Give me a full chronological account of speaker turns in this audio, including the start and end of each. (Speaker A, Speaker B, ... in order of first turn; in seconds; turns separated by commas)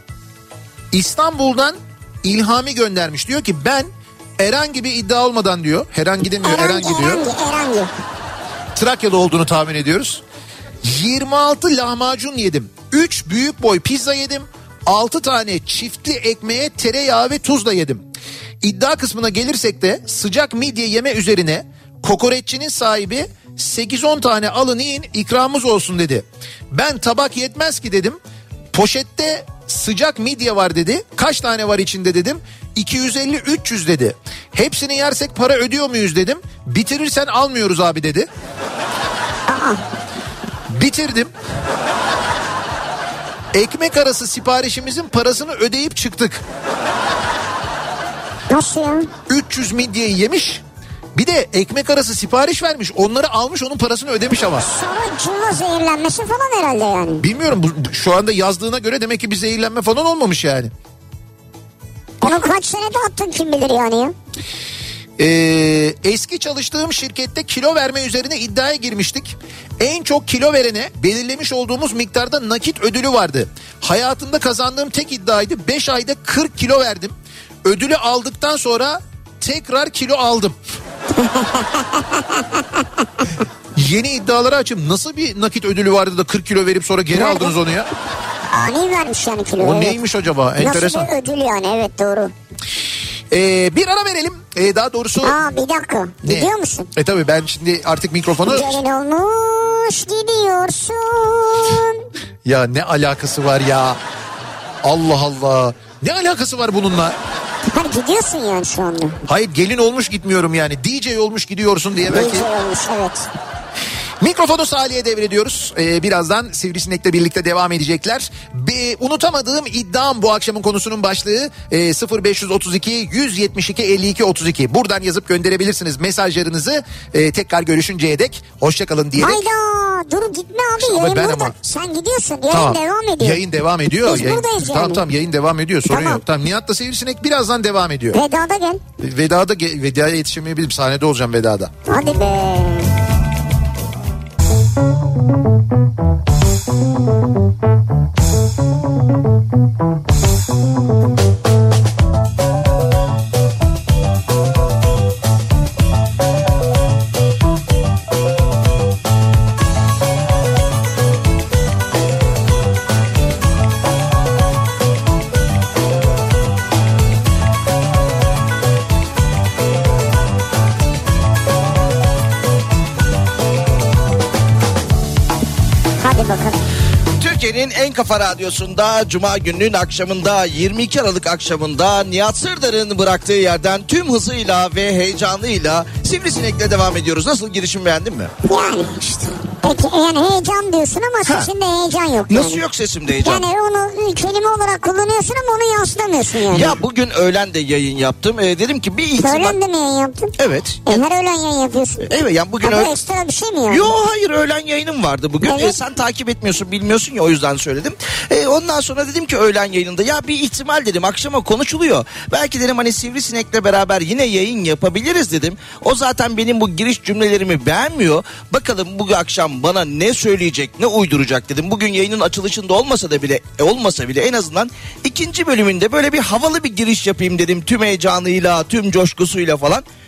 Speaker A: 0.9-7.2, Speaker B: 6.4-7.9, Speaker A: 8.7-10.2, Speaker A: 10.8-18.0, Speaker A: 18.6-28.2, Speaker A: 28.7-38.3, Speaker B: 39.5-39.8, Speaker A: 40.7-41.3, Speaker A: 43.5-46.4, Speaker B: 48.5-49.1, Speaker A: 49.3-50.6, Speaker A: 51.1-54.7, Speaker B: 54.6-57.2, Speaker A: 57.2-60.7, Speaker B: 62.2-64.1, Speaker A: 65.2-80.5, Speaker B: 81.2-82.8, Speaker A: 83.8-87.9, Speaker B: 87.1-87.5, Speaker B: 88.5-90.0, Speaker A: 89.6-91.1, Speaker B: 90.6-92.3, Speaker A: 93.3-95.3, Speaker B: 95.2-96.9, Speaker A: 96.2-98.8, Speaker B: 98.4-102.0, Speaker A: 102.4-104.0, Speaker A: 104.8-107.2, Speaker B: 107.7-109.2, Speaker A: 109.3-112.5, Speaker B: 112.1-113.3, Speaker A: 114.2-129.4, Speaker B: 129.2-133.4, Speaker A: 130.8-131.5, Speaker A: 132.5-138.2, Speaker B: 134.0-135.0, Speaker B: 135.9-136.2, Speaker B: 138.1-138.8, Speaker A: 139.0-141.7, Speaker B: 141.9-142.9, Speaker B: 176.0-176.6, Speaker C: 177.2-188.3, Speaker B: 188.4-192.6, Speaker C: 192.3-193.4, Speaker B: 193.2-196.8, Speaker C: 196.5-199.6, Speaker B: 199.2-200.3, Speaker C: 200.4-201.0, Speaker B: 200.8-202.1, Speaker C: 202.1-202.9, Speaker B: 202.6-203.9, Speaker C: 203.7-229.8, Speaker B: 205.4-205.8